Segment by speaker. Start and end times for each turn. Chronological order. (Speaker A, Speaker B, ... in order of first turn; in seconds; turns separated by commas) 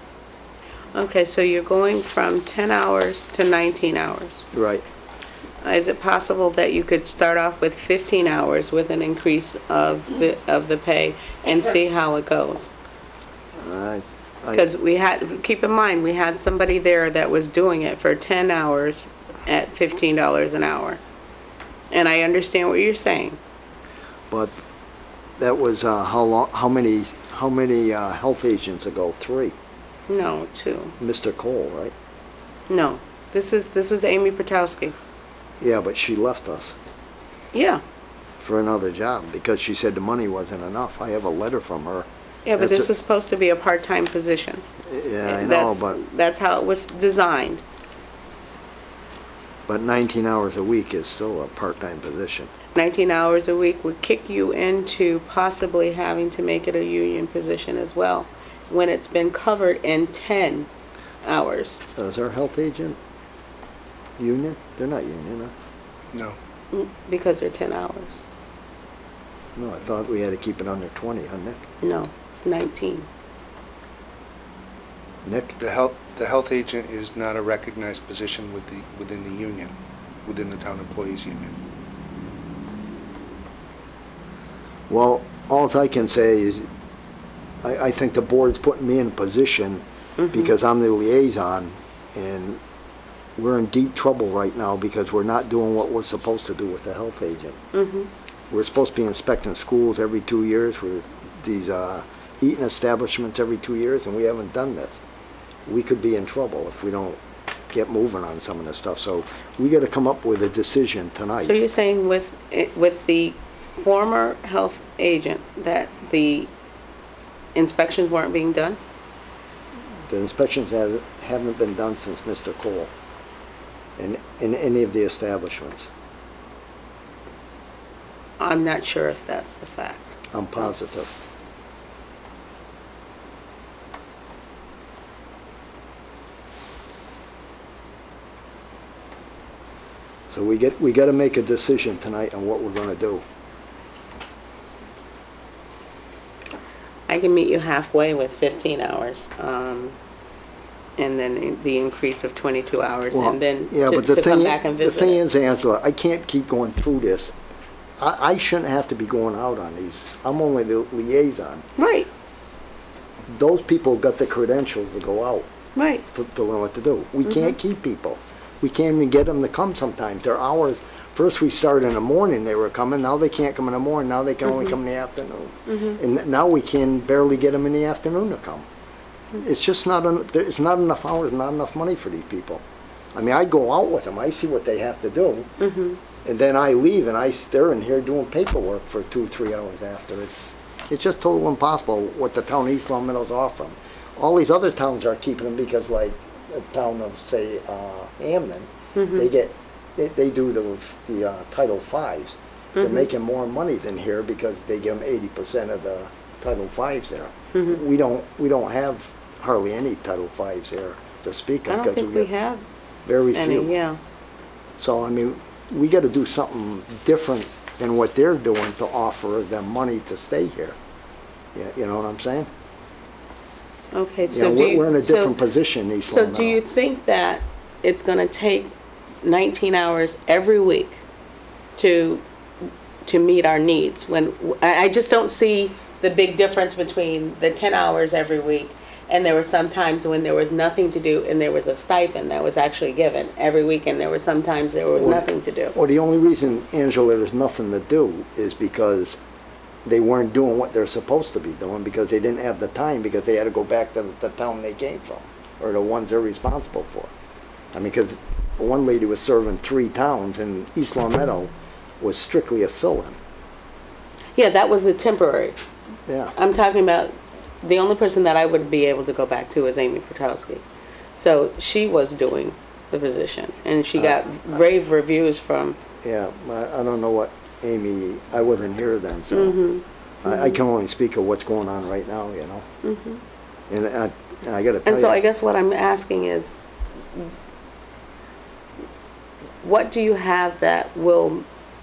Speaker A: 0.9-4.4, Speaker B: 4.5-4.8, Speaker A: 5.6-12.7, Speaker B: 13.6-14.7, Speaker A: 14.5-21.0, Speaker A: 21.9-23.4, Speaker B: 25.4-29.5, Speaker A: 30.1-30.9, Speaker B: 31.0-31.9, Speaker A: 32.7-35.0, Speaker B: 35.6-36.8, Speaker A: 37.5-37.8, Speaker B: 38.4-42.9, Speaker A: 42.5-44.6, Speaker B: 44.8-46.0, Speaker A: 45.2-47.6, Speaker B: 49.7-52.5, Speaker A: 52.7-60.7, Speaker A: 61.2-61.8, Speaker B: 62.0-63.0, Speaker B: 64.2-65.5, Speaker C: 66.1-66.4, Speaker A: 66.7-68.2, Speaker B: 69.5-71.6, Speaker A: 71.8-73.1, Speaker B: 75.2-75.5, Speaker C: 75.6-79.7, Speaker C: 80.2-81.5, Speaker B: 84.9-86.7, Speaker B: 87.6-92.6, Speaker A: 90.2-90.5, Speaker B: 93.4-97.6, Speaker A: 97.7-98.1, Speaker B: 98.5-105.0, Speaker B: 105.7-107.2, Speaker B: 107.7-111.5, Speaker A: 111.4-116.5, Speaker A: 117.5-118.8, Speaker B: 120.1-122.9, Speaker B: 124.0-125.9, Speaker A: 128.4-130.2, Speaker B: 130.3-131.2, Speaker B: 140.3-143.2, Speaker A: 147.1-149.9, Speaker A: 151.0-155.2, Speaker B: 153.1-157.3, Speaker B: 158.0-161.6, Speaker A: 161.8-162.1, Speaker B: 163.3-165.5, Speaker A: 165.8-166.0, Speaker B: 166.1-178.7, Speaker A: 167.3-167.6, Speaker A: 174.5-174.7, Speaker A: 175.7-176.0, Speaker B: 179.4-182.6, Speaker B: 183.1-185.5, Speaker A: 185.6-186.0, Speaker B: 186.2-212.3, Speaker A: 198.9-199.3, Speaker A: 202.8-203.1, Speaker A: 207.5-207.8, Speaker A: 211.7-212.6, Speaker B: 213.0-213.7, Speaker A: 213.3-214.0, Speaker B: 214.8-220.8, Speaker B: 221.5-222.5, Speaker A: 223.9-225.4, Speaker B: 224.3-226.6, Speaker A: 226.1-228.7, Speaker A: 229.2-231.0, Speaker A: 231.8-232.2, Speaker A: 233.0-245.7, Speaker B: 244.9-249.2, Speaker B: 249.8-257.1, Speaker B: 257.7-263.2, Speaker A: 264.4-265.6, Speaker B: 266.1-266.3, Speaker A: 266.4-270.6, Speaker A: 271.1-275.8, Speaker B: 273.9-274.6, Speaker B: 276.0-279.6, Speaker A: 279.3-280.6, Speaker B: 280.2-282.6, Speaker A: 282.8-283.2, Speaker B: 283.7-285.2, Speaker A: 284.9-286.6, Speaker A: 289.6-291.4